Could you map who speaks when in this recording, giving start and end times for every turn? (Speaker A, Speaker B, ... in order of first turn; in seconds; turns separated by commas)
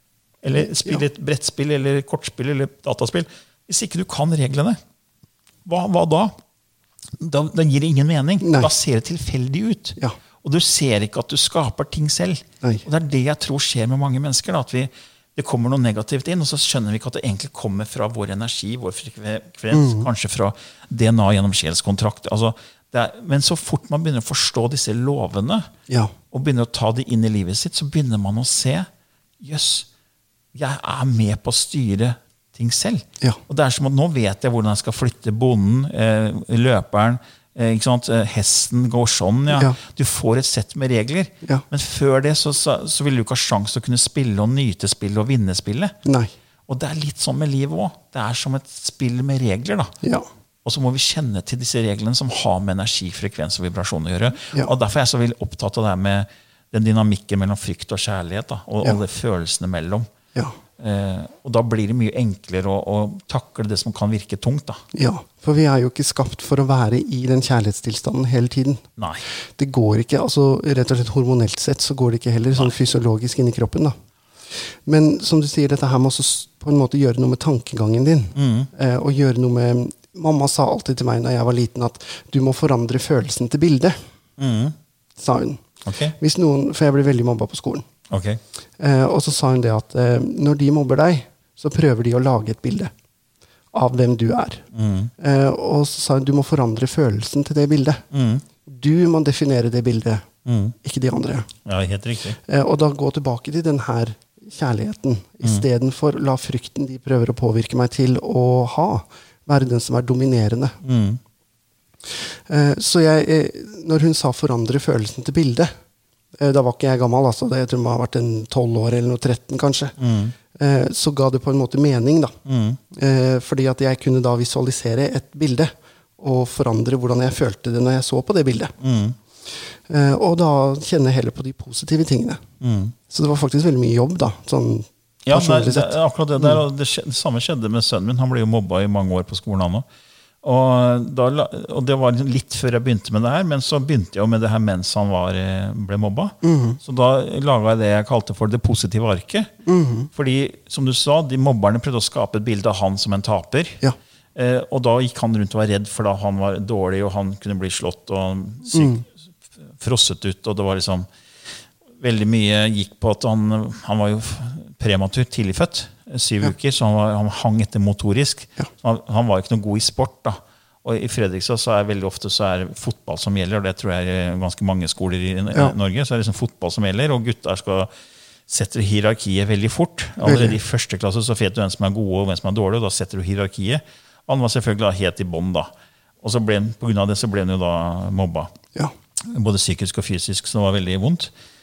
Speaker A: 0.4-4.8, Speaker A: 5.7-6.3, Speaker A: 7.2-25.7, Speaker B: 8.4-8.7, Speaker B: 19.7-20.1, Speaker B: 25.9-26.1, Speaker A: 26.3-28.9, Speaker A: 29.4-29.9, Speaker A: 30.5-46.0, Speaker B: 39.5-39.8, Speaker B: 46.0-46.3, Speaker A: 46.7-50.0, Speaker B: 50.0-50.3, Speaker A: 50.6-60.1, Speaker A: 60.8-64.8, Speaker B: 64.9-68.8, Speaker A: 69.0-69.2, Speaker B: 69.5-74.0, Speaker B: 74.8-84.0, Speaker A: 78.3-78.7, Speaker A: 84.4-84.8, Speaker B: 85.2-85.6, Speaker A: 85.8-86.2, Speaker B: 86.2-87.9, Speaker A: 88.1-88.4, Speaker B: 88.8-92.9, Speaker B: 93.7-94.6, Speaker A: 94.7-95.1, Speaker B: 95.2-98.0, Speaker A: 98.1-98.4, Speaker B: 98.7-100.3, Speaker A: 100.5-100.8, Speaker B: 100.8-101.5, Speaker A: 101.7-102.4, Speaker B: 102.4-110.8, Speaker A: 110.8-111.2, Speaker B: 112.1-115.7, Speaker B: 116.4-120.0, Speaker A: 120.0-120.3, Speaker B: 120.5-122.4, Speaker A: 122.5-122.8, Speaker B: 122.9-128.8, Speaker A: 128.8-129.2, Speaker B: 129.4-132.4, Speaker A: 132.6-132.9, Speaker B: 133.1-136.6, Speaker A: 135.2-139.9, Speaker A: 140.4-149.5, Speaker B: 146.4-146.8, Speaker B: 149.7-150.1, Speaker A: 150.1-153.8, Speaker A: 154.3-159.1, Speaker B: 158.7-159.0, Speaker A: 159.8-161.1, Speaker A: 162.0-177.9, Speaker A: 178.5-185.7, Speaker B: 180.2-180.6, Speaker A: 186.2-188.5, Speaker A: 189.2-191.3